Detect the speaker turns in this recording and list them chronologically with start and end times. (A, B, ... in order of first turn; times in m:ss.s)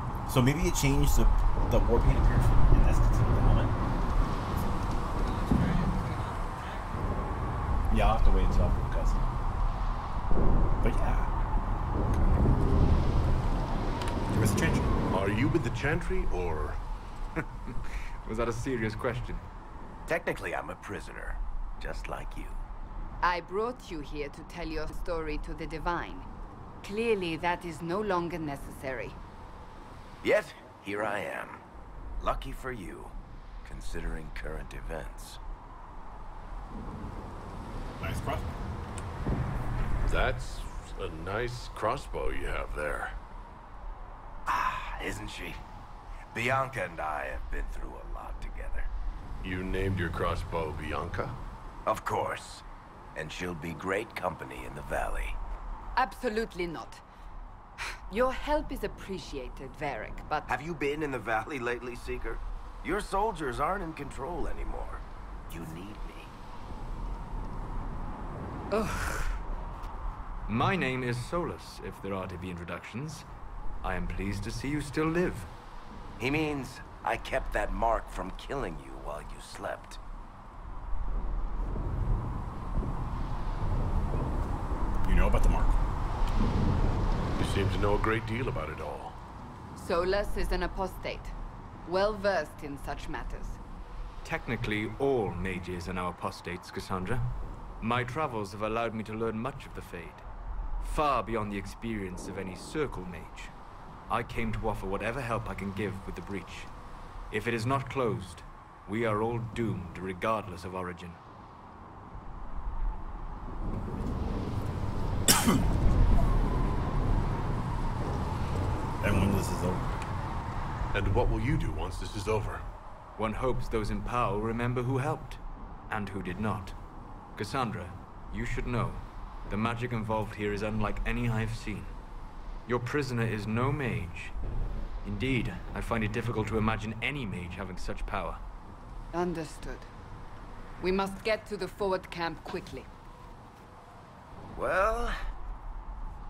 0:00.3-0:03.7 A
0:07.9-0:09.2 A
0:10.8-0:11.3 A
0:14.3-0:14.9 A
0:15.1-0:16.8 B
0:17.4-0:19.4 C
0:20.1-0:22.6 D
0:23.2-0:26.3 E
0:26.8-0:29.2 E
0:30.2-0:31.6 D
0:32.2-0:35.4 D
0:38.0-0:38.5 A
0:40.0-0:43.2 B
0:44.5-0:45.6 D
0:46.3-0:48.9 D
0:49.4-0:51.4 B
0:51.8-0:52.6 D
0:53.1-0:55.4 D
0:56.0-0:57.0 E
0:58.1-1:00.5 E
1:00.5-1:06.3 D
1:08.7-1:09.4 E
1:10.5-1:13.2 C
1:13.8-1:15.5 C
1:16.2-1:20.0 D
1:25.0-1:25.8 A
1:27.4-1:29.2 B
1:29.8-1:31.3 E
1:31.8-1:33.6 E
1:34.2-1:40.2 C
1:40.8-1:43.5 C
1:44.1-1:46.7 C
1:47.3-1:51.2 C
1:59.0-1:59.9 A
2:00.9-2:02.6 B
2:03.2-2:06.7 C
2:07.4-2:11.9 C
2:12.7-2:14.3 C
2:15.0-2:18.4 C
2:19.1-2:19.9 E
2:20.8-2:22.9 E
2:24.6-2:25.1 D